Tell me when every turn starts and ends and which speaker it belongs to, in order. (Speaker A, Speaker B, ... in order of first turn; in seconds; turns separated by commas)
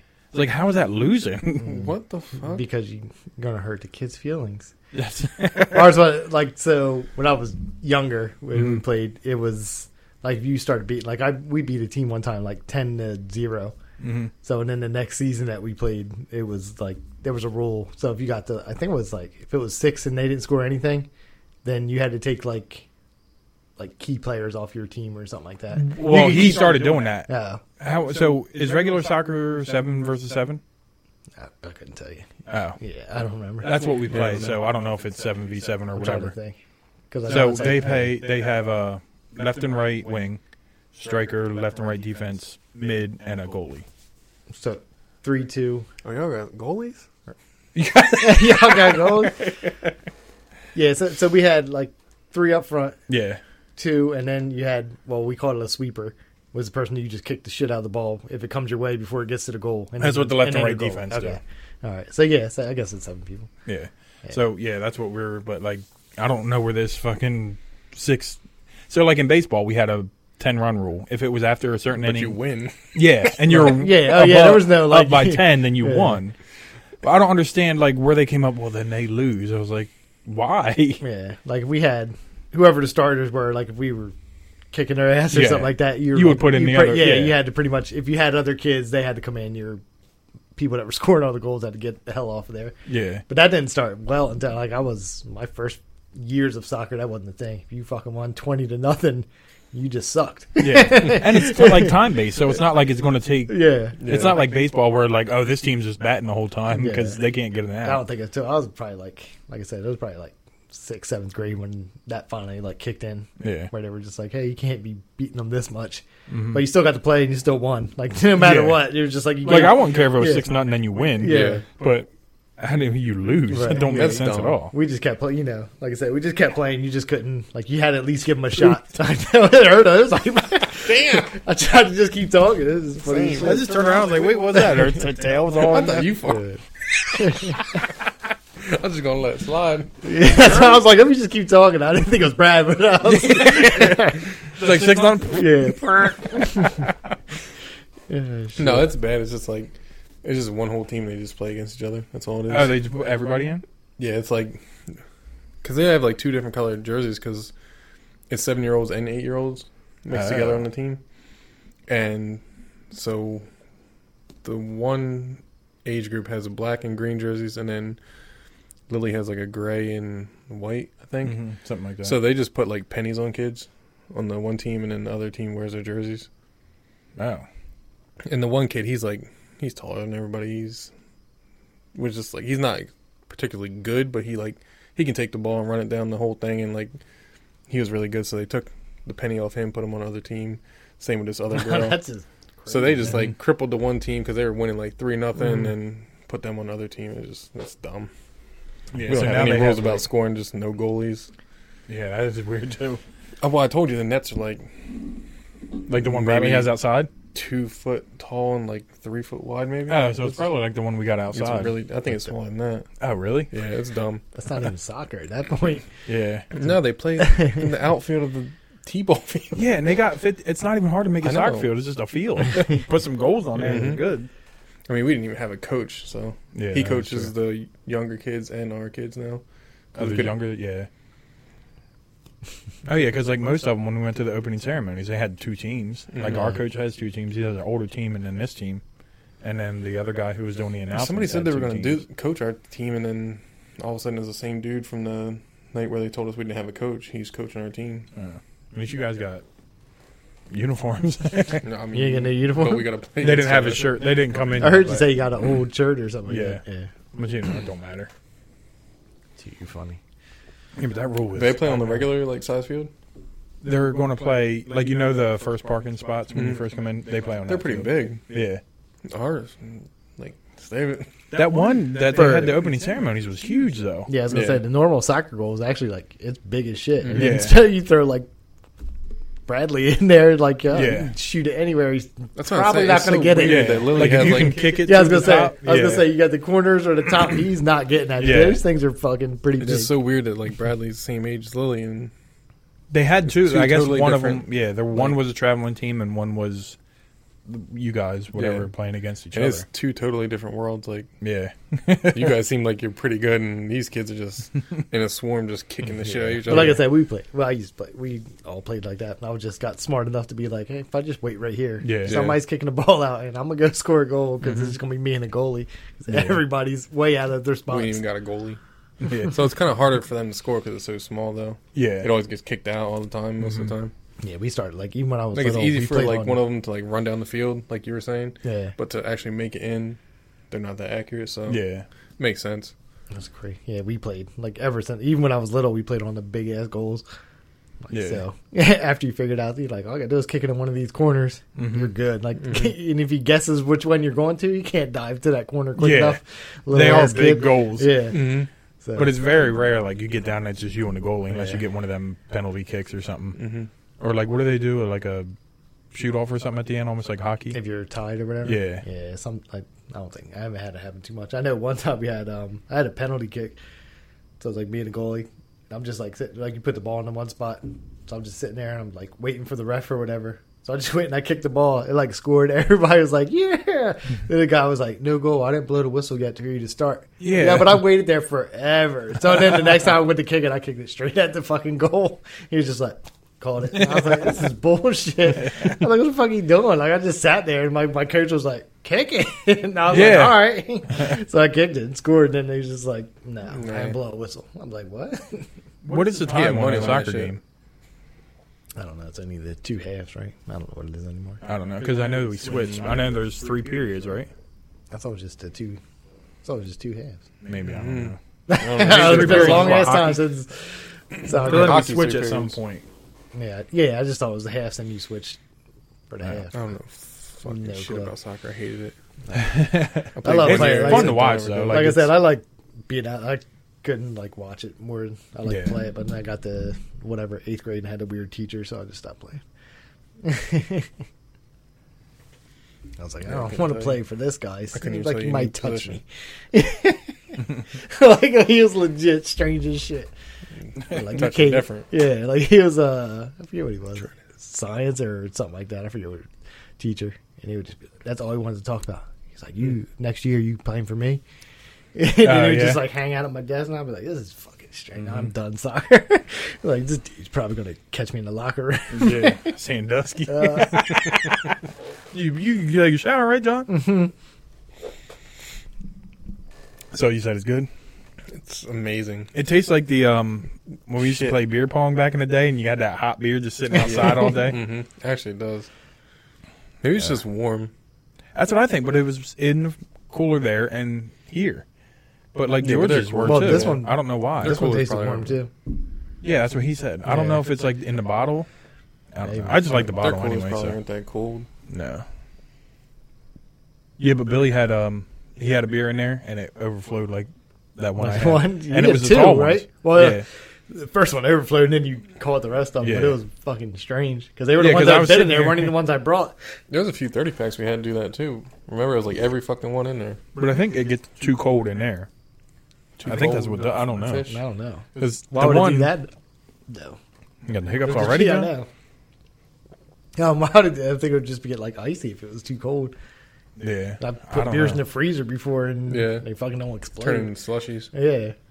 Speaker A: 0.3-1.7, Speaker B: 1.6-1.9, Speaker C: 1.6-2.6, Speaker B: 2.4-4.7, Speaker A: 4.9-5.9, Speaker B: 5.7-13.7, Speaker A: 8.5-8.8, Speaker A: 14.0-14.3, Speaker B: 14.4-21.1, Speaker B: 21.6-22.9, Speaker B: 23.8-27.6, Speaker A: 25.8-30.6, Speaker B: 31.4-33.9, Speaker A: 32.5-32.8, Speaker A: 33.6-36.3, Speaker C: 34.1-34.5, Speaker B: 35.9-36.6, Speaker B: 37.1-38.1, Speaker A: 37.3-40.4, Speaker A: 40.9-43.9, Speaker B: 44.5-45.9, Speaker C: 46.0-47.0, Speaker A: 47.7-49.9, Speaker B: 48.1-49.4, Speaker B: 50.7-53.0, Speaker A: 53.1-53.4, Speaker B: 53.8-63.5, Speaker A: 60.0-61.4, Speaker A: 63.6-72.3, Speaker C: 72.0-72.9, Speaker A: 72.9-76.3, Speaker B: 73.4-76.2, Speaker A: 77.0-81.0, Speaker B: 81.0-84.1, Speaker B: 84.7-89.8, Speaker A: 85.3-87.4, Speaker B: 90.5-92.7, Speaker A: 92.9-93.2, Speaker B: 93.3-101.9, Speaker A: 100.6-108.0, Speaker B: 103.5-104.2, Speaker C: 104.0-104.4, Speaker B: 106.7-107.2, Speaker B: 107.8-120.5, Speaker A: 113.4-113.7, Speaker A: 116.3-116.6, Speaker A: 118.3-118.8, Speaker A: 119.4-124.7, Speaker B: 121.2-121.7, Speaker C: 121.2-121.7, Speaker B: 123.5-133.8, Speaker C: 123.7-124.6, Speaker C: 130.8-131.3, Speaker C: 133.0-133.7, Speaker A: 133.4-136.3, Speaker C: 135.6-136.5, Speaker B: 137.2-137.6, Speaker C: 138.6-139.9, Speaker B: 140.0-144.3, Speaker A: 143.1-146.9, Speaker B: 145.3-146.8, Speaker B: 148.1-148.9, Speaker C: 148.6-152.8, Speaker A: 152.5-153.6, Speaker C: 154.0-154.9, Speaker C: 155.6-157.5, Speaker C: 158.3-161.0, Speaker A: 160.1-160.6, Speaker C: 161.9-163.5, Speaker C: 164.4-168.0, Speaker C: 168.9-171.4, Speaker A: 171.2-172.2, Speaker C: 172.0-176.3, Speaker A: 177.2-177.5, Speaker C: 178.2-180.9, Speaker C: 181.9-187.0, Speaker C: 187.7-192.0, Speaker B: 191.5-193.1, Speaker C: 192.7-198.1, Speaker A: 198.9-200.0, Speaker C: 199.0-201.3, Speaker A: 201.9-203.0, Speaker C: 203.4-205.2, Speaker C: 205.8-210.4, Speaker A: 205.9-207.1, Speaker A: 209.9-211.8, Speaker C: 211.3-212.9, Speaker A: 213.0-213.5, Speaker C: 213.5-214.2, Speaker B: 214.3-215.9, Speaker A: 216.1-216.5, Speaker C: 216.5-219.7, Speaker B: 216.6-217.6, Speaker A: 219.5-224.3, Speaker C: 221.2-221.7, Speaker C: 223.6-224.0, Speaker C: 224.9-229.4, Speaker A: 226.5-227.3, Speaker C: 229.9-230.4, Speaker A: 229.9-230.9, Speaker A: 232.8-238.8, Speaker C: 236.1-236.5, Speaker B: 236.2-236.6, Speaker A: 239.4-242.0, Speaker C: 240.9-248.1, Speaker A: 248.1-249.4, Speaker A: 250.5-251.6, Speaker C: 251.6-254.0, Speaker B: 251.9-252.9, Speaker A: 253.2-255.1, Speaker B: 254.6-256.9, Speaker A: 256.2-256.6, Speaker A: 257.1-258.1, Speaker B: 259.4-260.0, Speaker A: 260.8-262.1, Speaker C: 261.3-262.9, Speaker A: 263.6-268.6, Speaker C: 266.3-266.6, Speaker C: 267.5-268.2, Speaker C: 269.1-271.3, Speaker A: 271.3-274.1, Speaker B: 272.1-272.6, Speaker B: 274.1-278.3, Speaker C: 274.3-274.6, Speaker C: 277.0-277.4, Speaker A: 277.1-277.6, Speaker B: 279.5-289.9, Speaker A: 280.7-281.1, Speaker C: 282.4-284.8, Speaker A: 283.4-286.1, Speaker A: 288.2-288.6, Speaker C: 289.6-292.1, Speaker A: 292.9-296.8, Speaker C: 293.3-295.2, Speaker A: 297.4-299.6, Speaker C: 298.4-298.7, Speaker C: 299.3-301.1, Speaker A: 301.2-302.4, Speaker C: 302.1-306.9, Speaker B: 306.1-318.0, Speaker A: 306.4-306.8, Speaker A: 311.8-312.2, Speaker C: 312.0-312.4, Speaker A: 316.1-316.4, Speaker C: 317.7-318.6, Speaker A: 319.0-319.4, Speaker C: 319.2-323.9, Speaker A: 321.7-322.1, Speaker A: 323.4-323.7, Speaker B: 324.2-326.4, Speaker C: 325.3-330.0, Speaker B: 328.4-328.7, Speaker C: 330.5-331.6, Speaker A: 331.5-331.9, Speaker C: 332.2-332.7, Speaker B: 333.1-337.0, Speaker B: 337.8-348.3, Speaker A: 337.9-338.2, Speaker A: 341.6-341.9, Speaker C: 342.4-342.7, Speaker A: 345.8-346.2, Speaker A: 346.7-348.1, Speaker C: 348.1-348.5, Speaker B: 348.8-349.1, Speaker A: 348.9-353.4, Speaker B: 351.3-351.6, Speaker C: 353.3-353.7, Speaker A: 354.0-355.3, Speaker A: 355.9-357.6, Speaker B: 357.5-363.6, Speaker A: 358.4-358.8, Speaker B: 364.4-395.5, Speaker A: 377.2-377.8, Speaker A: 383.8-384.4, Speaker A: 389.9-390.5, Speaker C: 393.5-393.9, Speaker A: 395.8-397.4, Speaker C: 396.0-397.3, Speaker B: 398.8-401.4, Speaker A: 401.4-404.3, Speaker B: 404.9-405.8, Speaker B: 406.4-407.2, Speaker A: 407.4-408.2, Speaker C: 407.6-410.1, Speaker B: 408.5-411.9, Speaker A: 408.8-410.3, Speaker C: 411.3-412.6, Speaker A: 411.4-412.9, Speaker B: 413.3-415.4, Speaker B: 416.1-416.6, Speaker C: 416.5-418.9, Speaker B: 417.4-418.1, Speaker B: 419.3-429.4, Speaker A: 419.3-422.1, Speaker C: 420.1-421.9, Speaker A: 425.4-425.8, Speaker B: 430.2-430.9, Speaker B: 433.0-440.1, Speaker C: 433.2-434.0, Speaker C: 434.7-436.0, Speaker C: 440.9-441.9, Speaker B: 440.9-446.3, Speaker B: 446.8-451.2, Speaker B: 451.9-459.6, Speaker A: 452.2-452.8, Speaker A: 458.9-461.4, Speaker B: 460.3-461.1, Speaker A: 462.1-463.8, Speaker B: 463.7-464.1, Speaker A: 466.9-467.7, Speaker C: 468.3-469.3, Speaker A: 469.3-474.6, Speaker C: 473.8-475.7, Speaker C: 476.8-477.7, Speaker A: 478.3-481.6, Speaker A: 482.3-484.6, Speaker C: 482.6-483.8, Speaker B: 483.2-485.5, Speaker C: 484.4-485.4, Speaker A: 486.2-488.5, Speaker B: 487.1-487.4, Speaker A: 489.1-490.8, Speaker B: 489.2-489.8, Speaker C: 489.8-491.5, Speaker A: 491.7-492.1, Speaker A: 494.0-500.2, Speaker B: 498.0-506.3, Speaker A: 502.8-503.2, Speaker A: 504.6-505.8, Speaker C: 506.7-510.3, Speaker A: 510.4-512.1, Speaker C: 513.0-514.4, Speaker A: 513.0-514.3, Speaker B: 514.2-516.1, Speaker A: 515.0-515.9, Speaker B: 516.7-517.0, Speaker A: 517.5-518.5, Speaker B: 517.8-518.7, Speaker B: 520.1-522.9, Speaker A: 523.6-524.8, Speaker B: 524.0-527.3, Speaker C: 525.9-526.3, Speaker C: 527.0-527.9, Speaker B: 527.9-528.3